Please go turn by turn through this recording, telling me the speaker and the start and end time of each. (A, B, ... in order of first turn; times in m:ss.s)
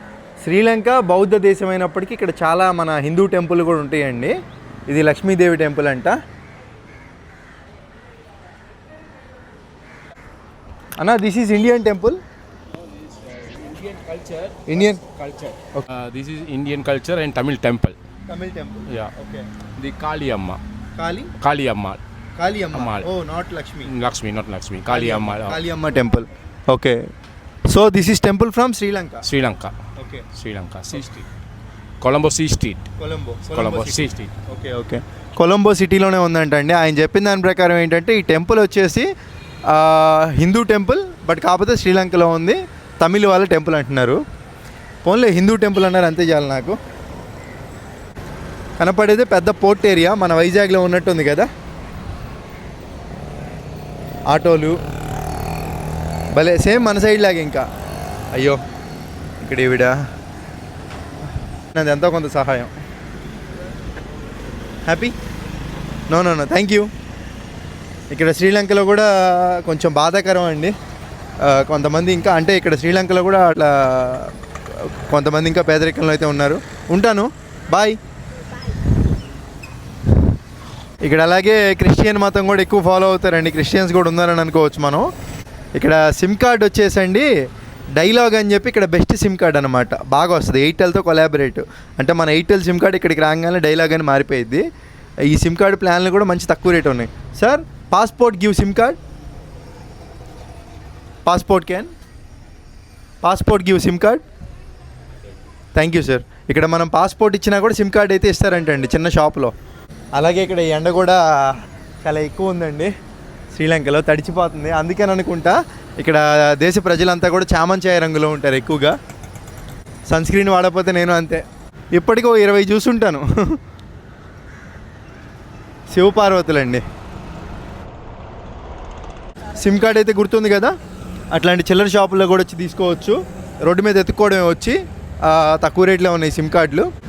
0:00.4-0:04.3 A
0:04.9-0:06.2 A
0:11.0-0:12.2 A
0:13.0-0:18.0 B
0:14.7-0:15.0 A
0:18.3-0:19.5 A
0:19.8-0:20.6 B
0:21.0-0:21.3 A
0:21.4-0:22.0 B
0:22.4-0:23.9 A
0:22.7-0:23.1 B
0:23.9-0:25.6 B
0:24.9-0:27.0 A
0:27.7-0:29.2 A
0:29.2-0:29.7 B
0:30.0-0:30.2 A
0:30.3-0:31.2 B
0:32.0-0:32.8 B
0:33.0-0:39.1 A
0:33.5-0:34.3 B
0:39.7-0:44.2 A
0:45.0-0:46.8 A
0:48.8-0:51.5 A
0:54.3-0:54.8 A
0:56.3-0:57.7 A
0:58.3-0:58.6 A
0:59.4-1:00.0 A
1:01.7-1:02.7 A
1:04.9-1:05.1 A
1:06.1-1:06.9 A
1:08.1-1:10.7 A
1:11.4-1:18.0 A
1:21.0-1:25.0 A
1:25.8-1:27.3 A
1:28.0-1:34.6 A
1:35.2-1:39.0 A
1:41.3-1:41.9 A
1:43.2-1:44.2 A
1:45.8-1:49.5 A
1:50.1-1:52.9 A
1:53.5-1:59.0 A
2:00.1-2:01.4 A
2:02.0-2:03.6 A
2:05.9-2:06.8 A
2:09.5-2:10.7 A
2:11.3-2:16.9 A